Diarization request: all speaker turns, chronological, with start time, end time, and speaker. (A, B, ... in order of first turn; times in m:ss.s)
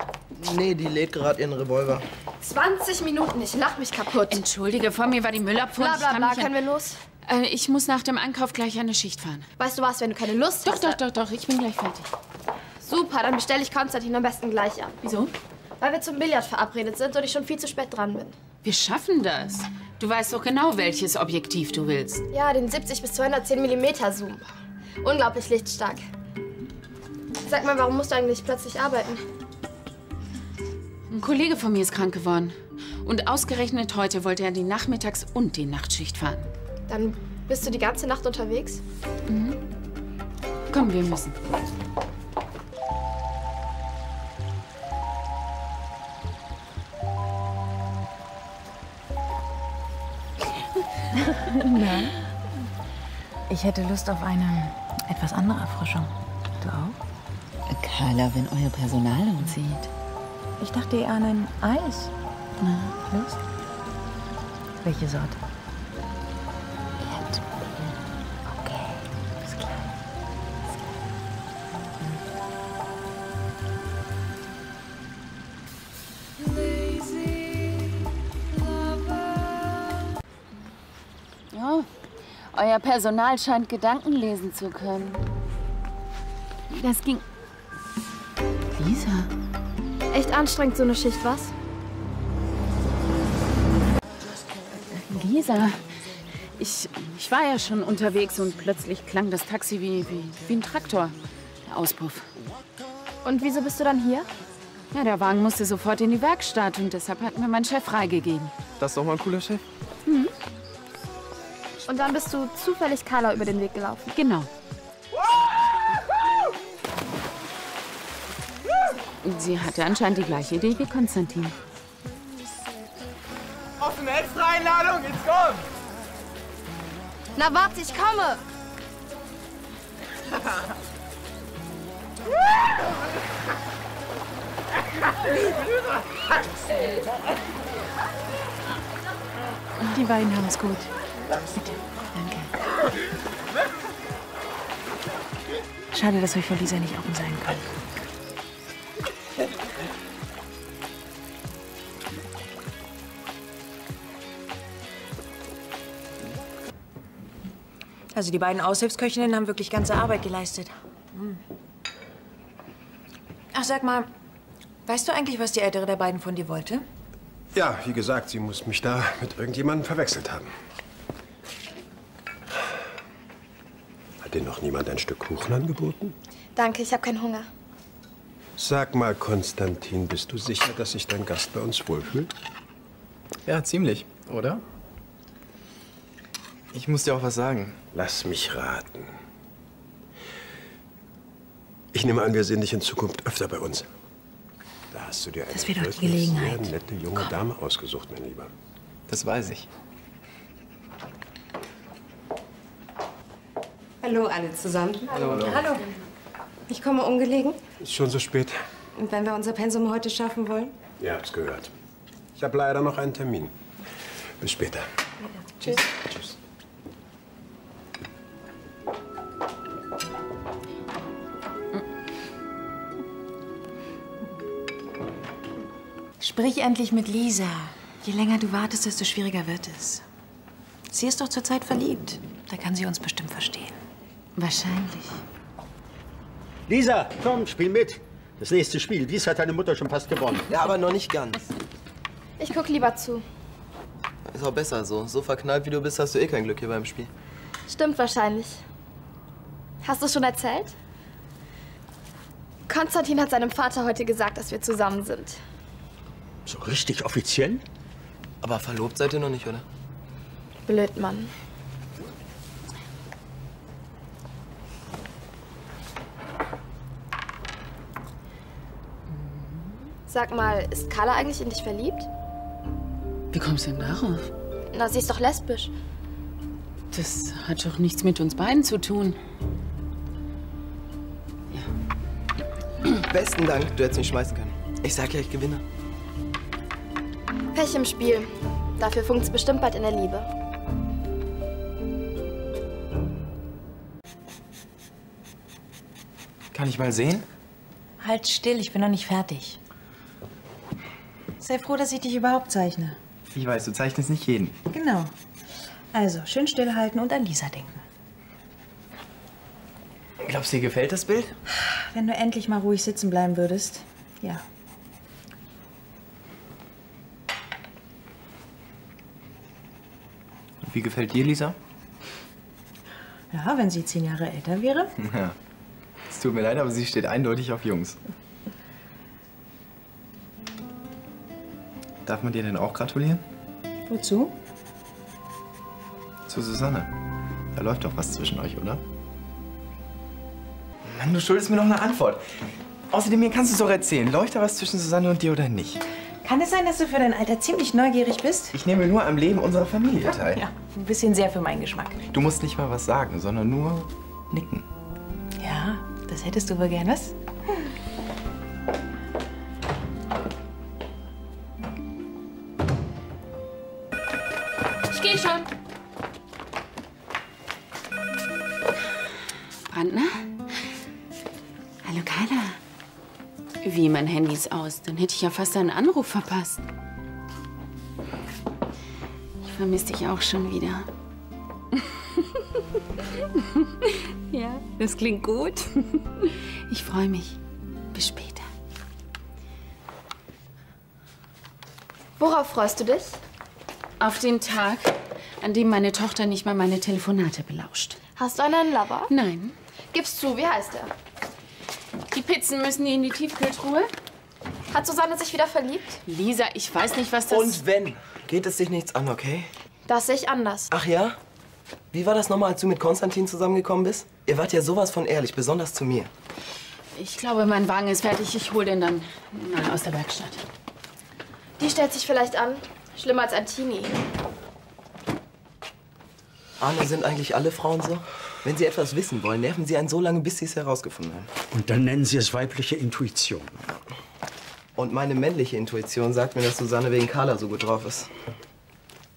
0:00.4-0:02.0 A
0:02.4-0:04.4 B
0:04.2-0:06.5 C
0:05.7-0:07.0 B
0:07.2-0:09.5 C
0:09.6-0:11.0 B
0:10.6-0:12.1 C
0:12.8-0:15.0 B
0:15.0-0:15.3 C
0:15.8-0:18.3 B
0:18.6-0:22.2 C
0:22.3-0:24.5 B
0:25.0-0:26.0 B
0:27.5-0:29.2 B
0:31.1-0:36.4 C
0:36.9-0:38.8 B
0:39.3-0:39.6 C
0:40.7-0:41.4 C
0:51.2-0:52.1 D
0:53.5-0:57.0 D
0:57.7-0:59.9 C
1:00.6-1:02.1 D
1:02.6-1:03.0 C
1:03.1-1:03.4 D
1:04.8-1:05.4 D
1:07.0-1:07.4 C
1:08.5-1:09.8 D
1:21.5-1:21.9 C
1:22.5-1:25.2 C
1:26.7-1:27.2 C
1:28.7-1:29.3 C
1:30.1-1:31.5 B
1:34.9-1:35.8 C
1:36.6-1:41.1 C
1:41.6-1:42.3 C
1:43.2-1:44.3 B
1:44.9-1:48.5 C
1:48.8-1:49.6 E
1:51.9-1:54.1 B
1:54.1-1:54.5 C
1:59.2-2:01.6 C
2:03.8-2:05.6 E
2:07.4-2:08.4 B
2:19.8-2:20.9 D
2:22.2-2:22.4 C
2:25.9-2:27.6 D
2:38.1-2:41.4 D
2:43.5-2:44.1 D
2:44.8-2:46.8 D
2:47.5-2:50.5 F
2:54.2-2:56.1 F
2:56.6-2:57.5 B
2:58.6-3:02.3 F
3:03.4-3:04.6 E
3:06.7-3:07.8 E
3:07.9-3:09.1 F
3:11.9-3:13.8 F
3:14.9-3:18.5 F
3:15.5-3:17.3 D
3:19.1-3:19.7 E
3:24.0-3:25.3 G
3:25.1-3:25.6 D
3:26.7-3:27.6 G
3:27.8-3:28.6 F
3:29.0-3:30.7 G
3:31.0-3:31.7 F
3:32.4-3:33.5 F
3:34.4-3:34.8 F
3:36.0-3:36.3 F
3:46.2-3:50.0 D
3:50.9-3:53.8 D
3:54.4-3:55.2 C
3:56.7-4:00.4 H
4:00.5-4:01.4 A
4:02.4-4:03.2 B
4:04.3-4:07.1 A
4:07.7-4:08.6 B
4:09.8-4:10.7 B
4:12.7-4:15.4 B
4:16.4-4:17.6 H
4:18.4-4:19.6 A
4:20.6-4:21.3 B
4:30.1-4:32.1 B
4:33.3-4:34.3 C
4:34.7-4:35.7 B
4:36.9-4:39.2 C
4:43.1-4:45.6 A
4:47.5-4:48.3 B
4:48.8-4:50.3 B
4:56.5-4:57.3 E
4:58.0-4:59.6 D
5:01.4-5:03.0 D
5:03.3-5:04.6 E
5:04.7-5:05.1 D
5:05.9-5:07.8 D
5:10.2-5:11.3 E
5:11.5-5:14.4 D
5:20.6-5:21.6 E
5:23.3-5:24.9 D
5:25.0-5:25.3 E
5:26.1-5:28.0 E
5:32.0-5:33.2 E
5:33.9-5:34.3 D
5:36.3-5:36.9 E
5:37.5-5:38.8 E
5:40.9-5:42.2 E
5:42.9-5:45.8 E
5:46.2-5:48.5 D
5:48.5-5:50.4 E
5:50.2-5:52.0 D
5:52.1-5:54.6 E
5:55.4-5:57.1 D
6:04.9-6:05.5 C
6:09.6-6:10.2 C
6:11.8-6:12.6 C
6:13.6-6:16.6 C
6:19.4-6:20.9 C
6:23.2-6:27.4 C
6:27.9-6:28.4 C
6:32.2-6:33.2 B
6:34.0-6:38.0 C
6:38.2-6:39.1 B
6:39.1-6:39.5 C
6:39.9-6:40.9 B
6:42.1-6:43.9 C
6:44.7-6:46.0 B
6:46.0-6:47.6 C
6:47.3-6:49.5 A
6:49.9-6:50.7 B
6:50.7-6:51.2 A
6:51.9-6:56.1 A
6:56.9-7:00.4 C
7:01.6-7:03.9 B
7:06.6-7:11.3 A
7:11.5-7:13.5 H
7:14.8-7:18.1 A